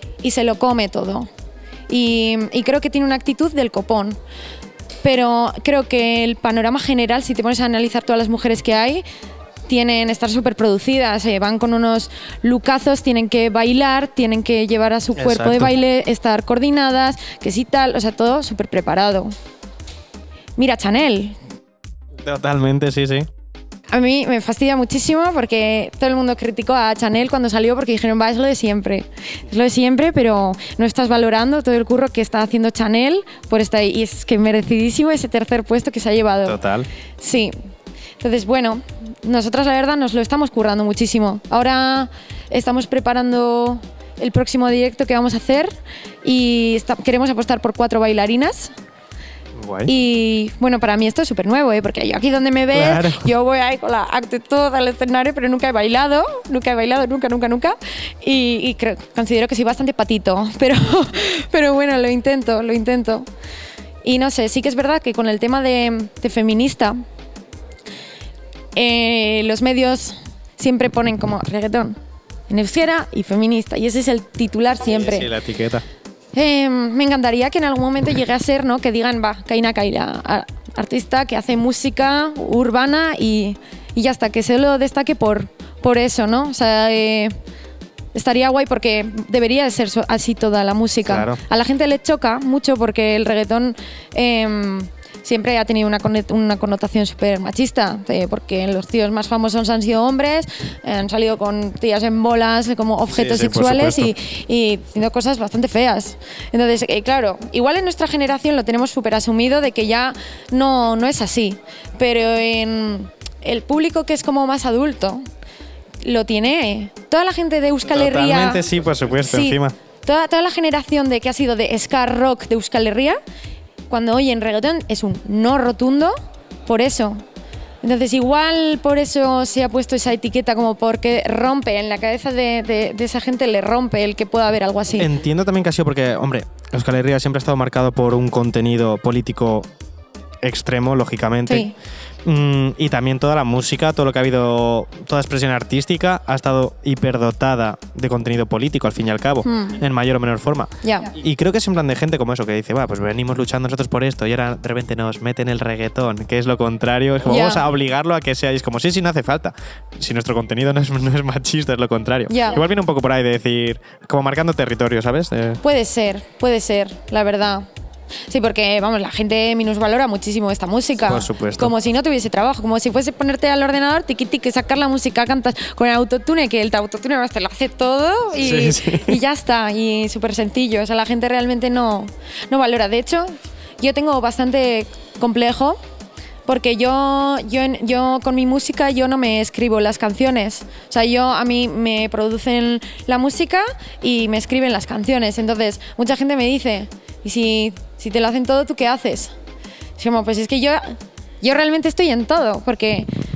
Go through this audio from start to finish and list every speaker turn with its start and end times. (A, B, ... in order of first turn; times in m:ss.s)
0:00.2-0:01.3 A
0:01.9-0:04.2 A
0:05.0-0:09.0 A
0:09.7-0:19.3 A
0:15.2-0:15.7 B
0:20.6-0:21.4 A
0:22.2-0:23.3 B
0:23.9-0:36.6 A
0:36.4-0:36.9 B
0:37.2-0:37.5 A
0:38.2-0:48.7 A
0:49.6-0:49.9 B
0:49.8-1:03.3 A
0:52.7-0:53.3 B
1:04.0-1:07.0 A
1:08.7-1:12.0 A
1:12.5-1:15.3 A
1:14.8-1:15.8 B
1:16.3-1:27.3 A
1:28.1-1:55.2 A
1:31.0-1:31.4 B
1:43.1-1:44.1 B
1:56.0-1:58.6 A
1:57.8-1:59.7 B
1:59.2-2:03.2 A
2:03.9-2:06.1 A
2:06.6-2:07.2 A
2:07.8-2:15.1 A
2:14.9-2:19.7 B
2:20.4-2:21.7 B
2:21.4-2:21.7 A
2:22.2-2:45.6 B
2:29.4-2:29.8 A
2:30.8-2:31.1 A
2:37.2-2:37.6 A
2:42.3-2:42.6 A
2:45.6-2:47.6 A
2:48.3-3:05.8 A
2:51.1-2:51.7 B
2:58.4-2:59.2 B
3:06.4-3:19.3 A
3:20.0-3:23.1 A